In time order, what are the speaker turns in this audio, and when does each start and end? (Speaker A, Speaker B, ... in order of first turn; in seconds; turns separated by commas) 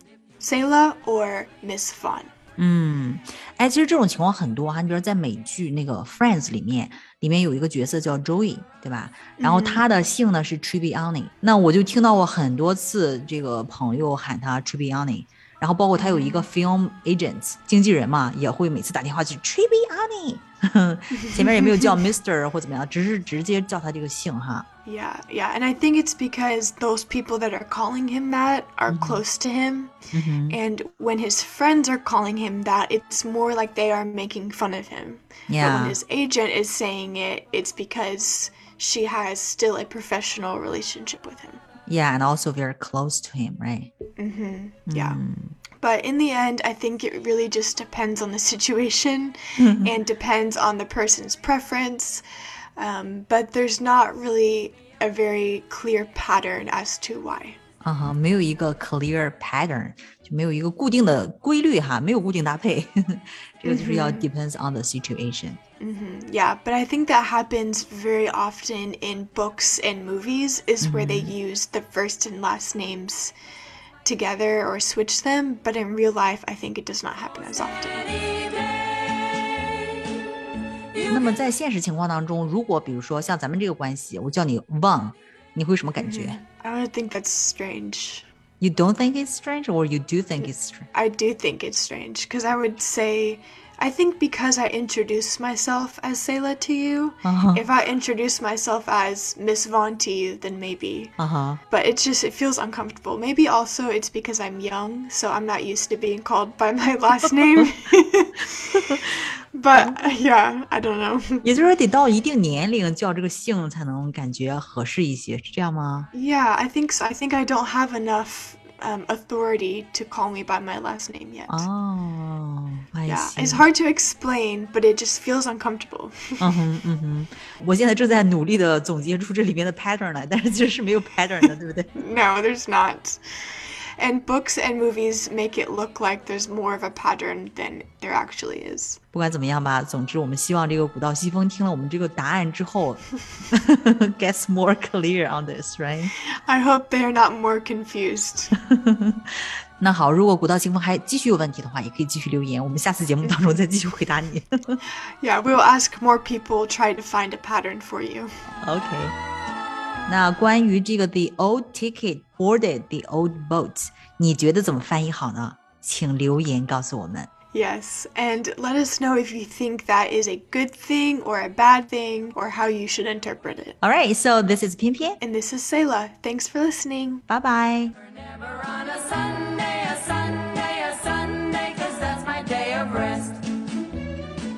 Speaker A: 0.4-2.3, Speaker B: 2.6-24.6, Speaker A: 9.4-9.8, Speaker A: 15.9-16.5, Speaker A: 21.1-22.0, Speaker A: 24.8-29.9, Speaker B: 28.9-29.2, Speaker B: 30.1-30.6, Speaker A: 30.5-41.6, Speaker B: 35.5-36.0, Speaker B: 41.9-43.9, Speaker A: 44.2-45.2, Speaker B: 44.9-45.6, Speaker A: 45.8-52.2, Speaker B: 49.6-49.9, Speaker A: 52.8-57.6, Speaker B: 57.8-65.6, Speaker A: 63.6-64.3, Speaker A: 65.8-73.3, Speaker B: 70.8-71.3, Speaker A: 74.0-78.4, Speaker B: 81.0-86.4, Speaker A: 86.0-88.2, Speaker B: 88.6-90.9, Speaker A: 90.9-101.1, Speaker B: 97.2-97.6, Speaker B: 101.2-101.6, Speaker A: 101.7-111.5, Speaker B: 111.4-116.1, Speaker A: 116.1-121.7, Speaker B: 121.5-123.6, Speaker A: 123.1-126.5, Speaker B: 126.4-131.9, Speaker A: 131.9-139.0, Speaker B: 139.1-146.1, Speaker A: 146.4-148.5, Speaker B: 148.6-154.8, Speaker A: 153.2-153.6, Speaker A: 155.2-158.3, Speaker B: 158.6-159.1, Speaker B: 160.1-167.3, Speaker A: 167.5-173.8, Speaker B: 173.8-175.2, Speaker A: 175.2-177.2, Speaker B: 177.3-177.9, Speaker C: 178.6-183.4